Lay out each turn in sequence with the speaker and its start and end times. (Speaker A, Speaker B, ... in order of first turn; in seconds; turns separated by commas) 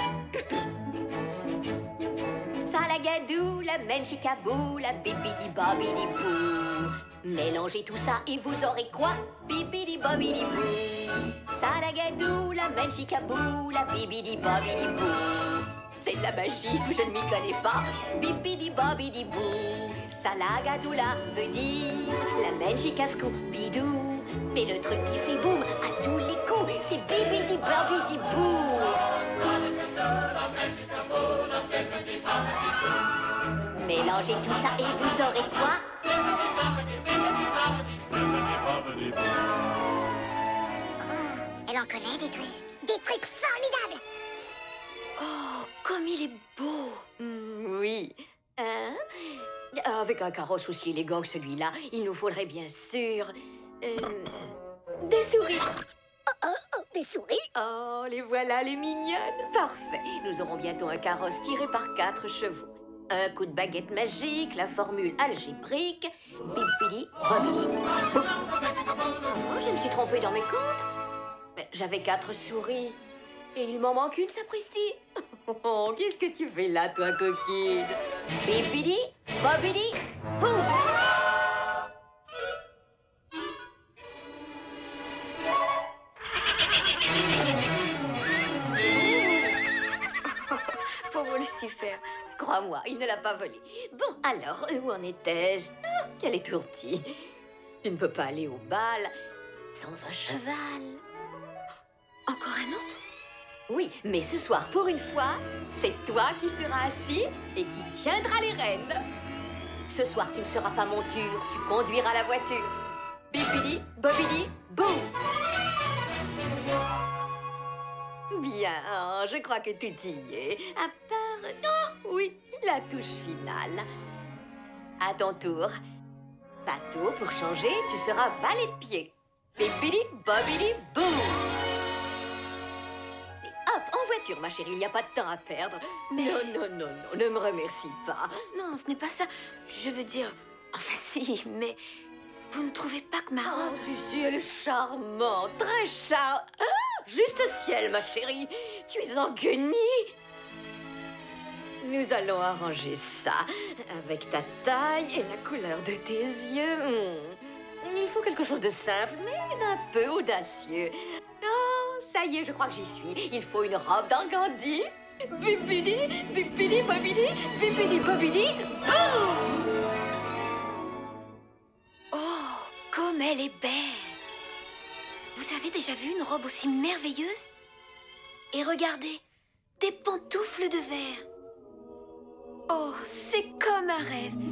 Speaker A: 2.6-29.1, Speaker A: 33.7-35.8, Speaker B: 41.0-44.0, Speaker C: 45.2-47.0, Speaker A: 47.2-54.4, Speaker A: 55.0-55.7, Speaker B: 56.9-57.2, Speaker A: 57.5-68.3, Speaker A: 69.2-70.8, Speaker A: 71.5-73.0, Speaker A: 73.5-80.8, Speaker C: 89.0-89.5, Speaker C: 90.3-92.0, Speaker A: 92.4-97.2, Speaker A: 97.8-99.1, Speaker A: 99.7-101.0, Speaker C: 102.3-103.0, Speaker A: 103.7-109.0, Speaker A: 109.9-112.7, Speaker A: 113.3-115.1, Speaker A: 118.3-123.8, Speaker A: 125.0-125.7, Speaker A: 126.7-131.5, Speaker A: 133.4-138.4, Speaker C: 136.1-136.4, Speaker C: 138.5-141.8, Speaker C: 142.5-143.8, Speaker A: 143.4-150.1, Speaker A: 151.8-169.4, Speaker C: 172.1-174.2, Speaker C: 175.3-177.5, Speaker C: 178.5-179.2, Speaker C: 179.8-181.2, Speaker C: 182.7-184.4